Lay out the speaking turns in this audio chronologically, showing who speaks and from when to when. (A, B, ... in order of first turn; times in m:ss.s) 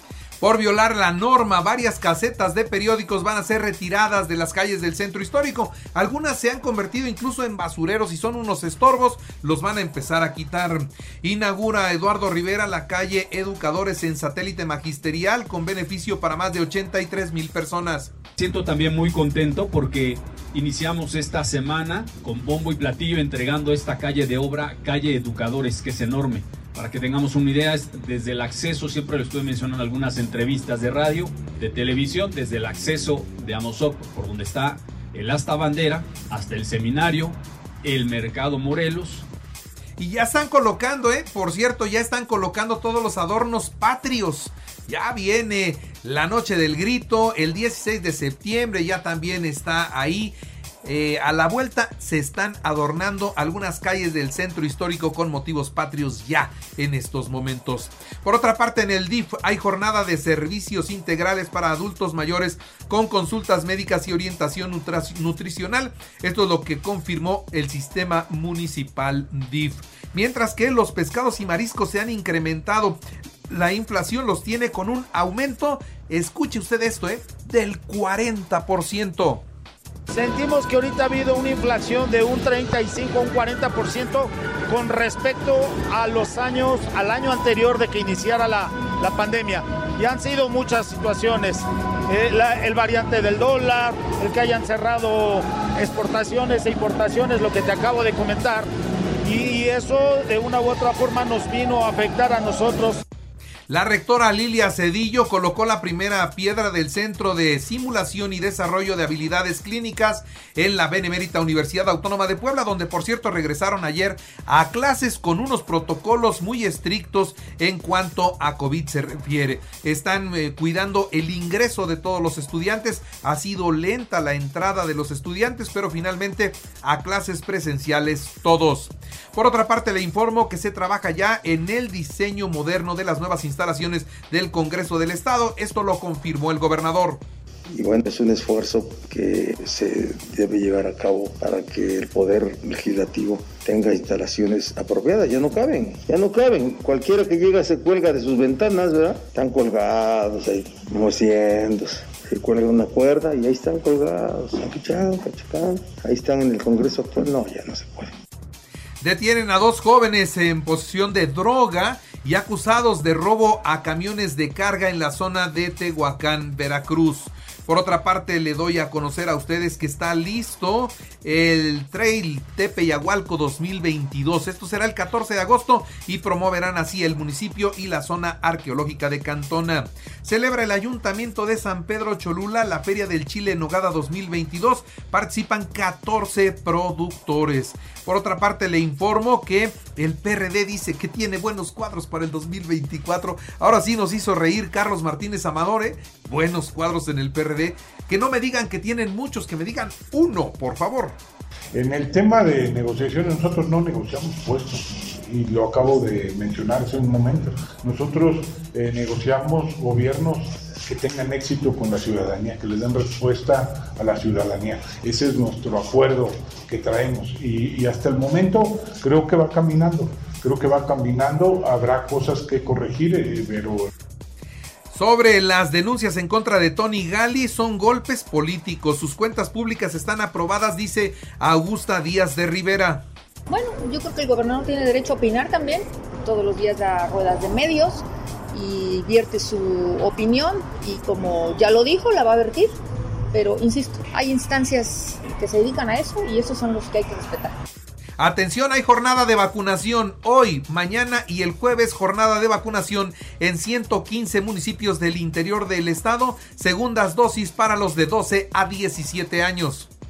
0:00.4-0:18.1 A
0:18.4-0:39.2 B
0:40.0-1:19.4 A
1:20.1-1:38.7 C
1:39.2-1:43.0 C
1:43.7-2:17.2 A
2:17.7-2:38.1 D
2:39.0-3:21.2 A
3:21.7-3:43.8 E
3:44.9-3:53.1 A
3:53.5-4:02.8 F
4:03.3-4:07.6 F
4:08.2-4:19.9 A